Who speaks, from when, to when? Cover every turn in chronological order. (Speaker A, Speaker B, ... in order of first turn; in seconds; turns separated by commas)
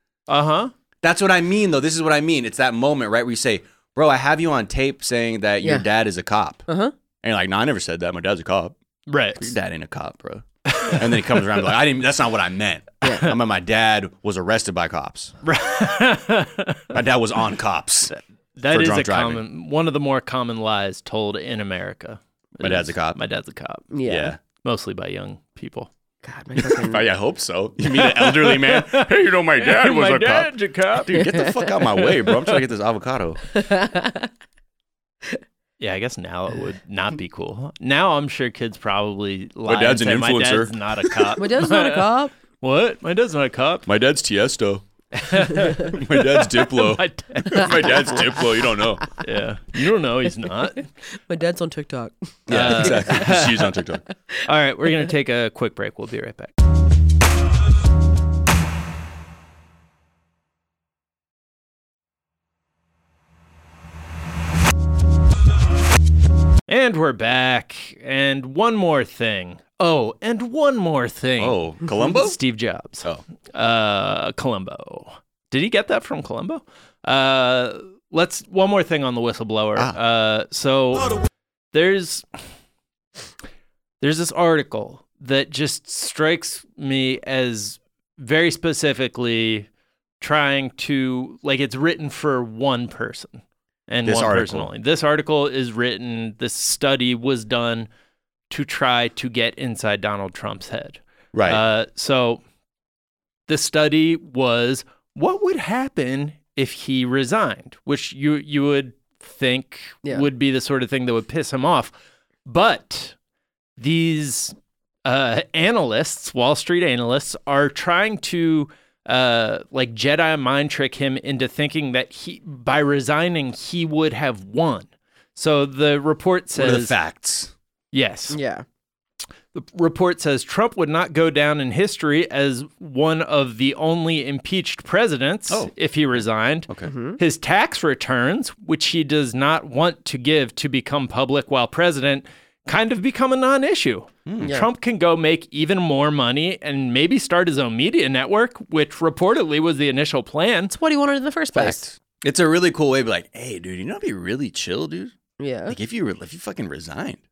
Speaker A: 0.3-0.7, Speaker B: 1.0-6.7, Speaker C: 6.7-6.9, Speaker B: 7.2-8.8, Speaker A: 9.1-9.5, Speaker B: 9.4-15.3, Speaker A: 10.7-11.4, Speaker C: 13.0-13.3, Speaker A: 15.4-16.9, Speaker B: 16.9-18.1, Speaker A: 18.1-23.9, Speaker B: 18.7-19.4, Speaker B: 22.6-23.2, Speaker C: 23.9-24.4, Speaker B: 24.1-24.4, Speaker A: 24.6-25.9, Speaker C: 26.2-27.1, Speaker B: 26.6-33.4, Speaker A: 28.0-31.2, Speaker C: 31.1-31.7, Speaker C: 33.5-34.3, Speaker A: 35.8-43.9, Speaker B: 39.7-41.4, Speaker C: 41.4-42.3, Speaker B: 43.9-44.9, Speaker A: 45.1-48.1, Speaker B: 45.4-49.1, Speaker A: 49.2-50.9, Speaker C: 51.3-53.3, Speaker B: 52.5-54.0, Speaker A: 52.5-53.5, Speaker A: 54.5-56.5, Speaker A: 66.7-81.1, Speaker B: 71.4-72.4, Speaker A: 81.7-82.3, Speaker A: 84.0-89.7, Speaker A: 90.2-97.9, Speaker B: 94.0-94.7, Speaker A: 98.5-102.4, Speaker B: 101.3-101.6, Speaker A: 103.5-111.9, Speaker A: 112.5-113.2, Speaker A: 113.8-127.0, Speaker B: 126.6-127.5, Speaker A: 127.9-128.4, Speaker C: 128.3-128.7, Speaker A: 129.5-150.7, Speaker B: 135.5-136.9, Speaker C: 136.9-137.2, Speaker B: 144.3-144.5, Speaker C: 144.4-144.7, Speaker C: 150.7-151.8, Speaker B: 151.5-155.1, Speaker C: 155.4-155.8, Speaker B: 155.7-157.2